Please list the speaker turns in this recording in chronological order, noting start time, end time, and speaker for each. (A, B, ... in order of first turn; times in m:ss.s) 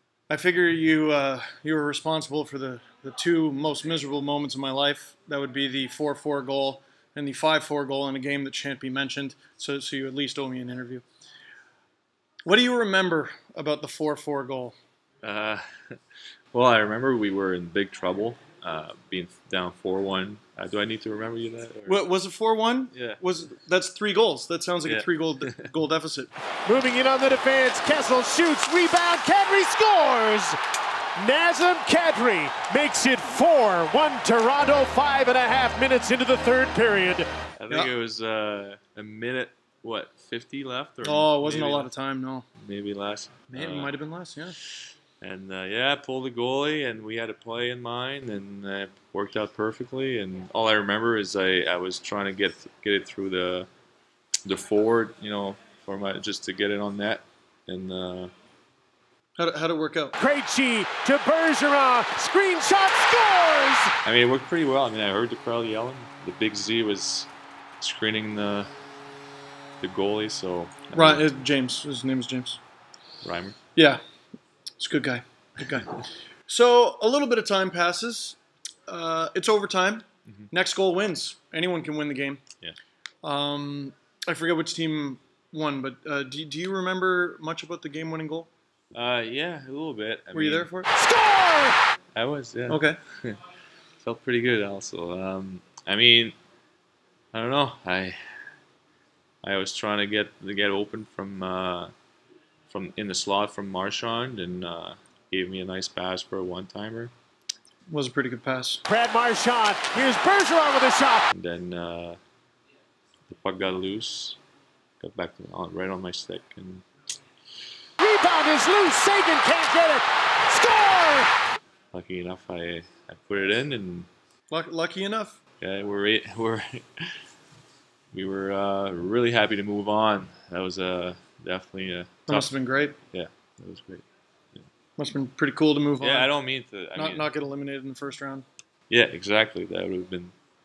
0:00.3-0:11.0 A
0:12.5-0:14.8 A
0:15.2-0:16.0 B
0:16.5-0:22.0 B
0:21.9-0:26.3 A
0:22.9-0:23.2 B
0:24.8-0:25.7 B
0:26.7-0:30.6 C
0:31.2-0:37.3 C
0:37.6-0:41.9 B
0:41.0-0:42.5 A
0:42.6-0:44.0 B
0:43.5-0:44.6 A
0:45.2-0:53.7 B
0:54.4-0:58.3 B
0:59.4-1:00.2 A
1:00.2-1:03.9 C
1:04.0-1:07.3 B
1:07.8-1:08.7 B
1:09.8-1:11.2 B
1:10.9-1:12.6 A
1:13.2-1:13.6 B
1:13.8-1:14.0 A
1:14.8-1:22.4 A
1:23.2-1:28.5 A
1:28.9-1:30.7 B
1:30.3-1:31.0 A
1:30.9-1:31.8 C
1:32.1-1:33.4 B
1:32.7-1:33.0 A
1:34.0-1:36.4 B
1:37.3-1:38.4 B
1:39.4-1:41.9 B
1:42.7-1:47.1 B
1:47.9-1:48.8 A
1:48.9-1:51.2 C
1:51.3-1:52.2 B
1:53.3-1:54.4 B
1:55.0-1:56.9 B
1:58.0-2:01.3 C
2:01.9-2:04.1 B
2:04.5-2:05.4 A
2:05.6-2:07.2 B
2:08.1-2:12.5 B
2:12.3-2:13.0 A
2:13.1-2:14.6 B
2:15.0-2:16.3 A
2:16.0-2:17.3 B
2:17.0-2:18.5 A
2:18.9-2:20.4 B